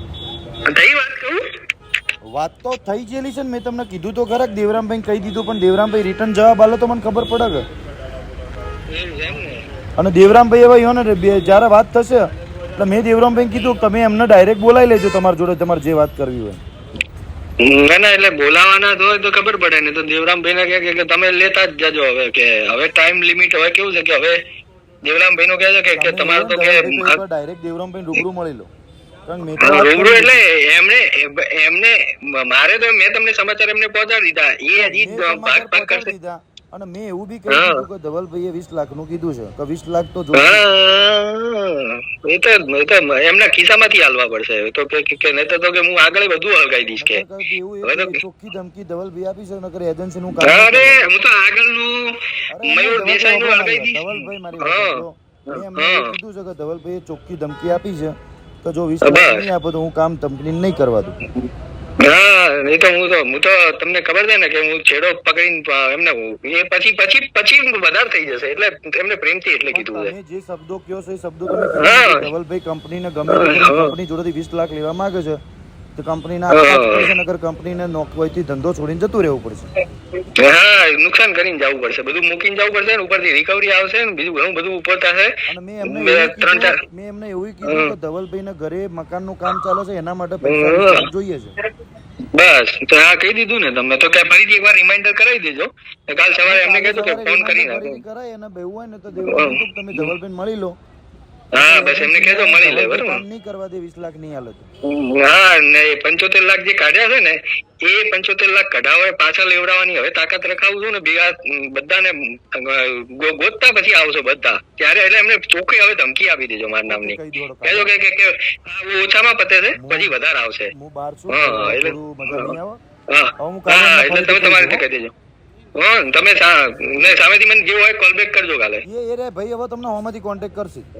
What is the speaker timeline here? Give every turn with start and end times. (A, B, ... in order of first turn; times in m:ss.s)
0:00.7-0:01.4 A
0:02.3-0:07.6 B
0:08.9-0:09.6 A
0:10.0-0:16.6 B
0:17.6-0:24.4 A
0:25.0-0:27.2 A
0:25.9-0:28.7 B
0:29.3-0:30.4 B
0:29.6-0:36.1 A
0:34.7-0:40.6 B
0:37.5-0:37.8 A
0:40.4-0:47.2 A
0:47.0-0:51.0 B
0:47.8-0:48.2 A
0:50.4-0:56.1 A
0:52.5-1:01.2 B
0:59.0-0:59.4 A
1:02.0-1:10.1 A
1:09.7-1:15.4 B
1:11.5-1:12.3 A
1:13.3-1:13.9 A
1:16.0-1:19.7 B
1:16.5-1:17.1 A
1:20.4-1:25.3 A
1:25.5-1:31.5 B
1:25.8-1:26.8 A
1:27.7-1:27.9 A
1:30.4-1:31.1 A
1:32.3-1:38.0 A
1:36.4-1:40.7 B
1:39.2-1:40.1 A
1:41.5-1:43.2 A
1:41.5-1:44.6 B
1:44.8-2:00.7 A
1:56.8-1:57.9 B
1:59.7-2:00.1 B
2:00.7-2:02.8 B
2:01.3-2:02.5 A
2:03.1-2:05.1 A
2:03.4-2:04.8 B
2:05.8-2:08.8 A
2:08.8-2:10.9 B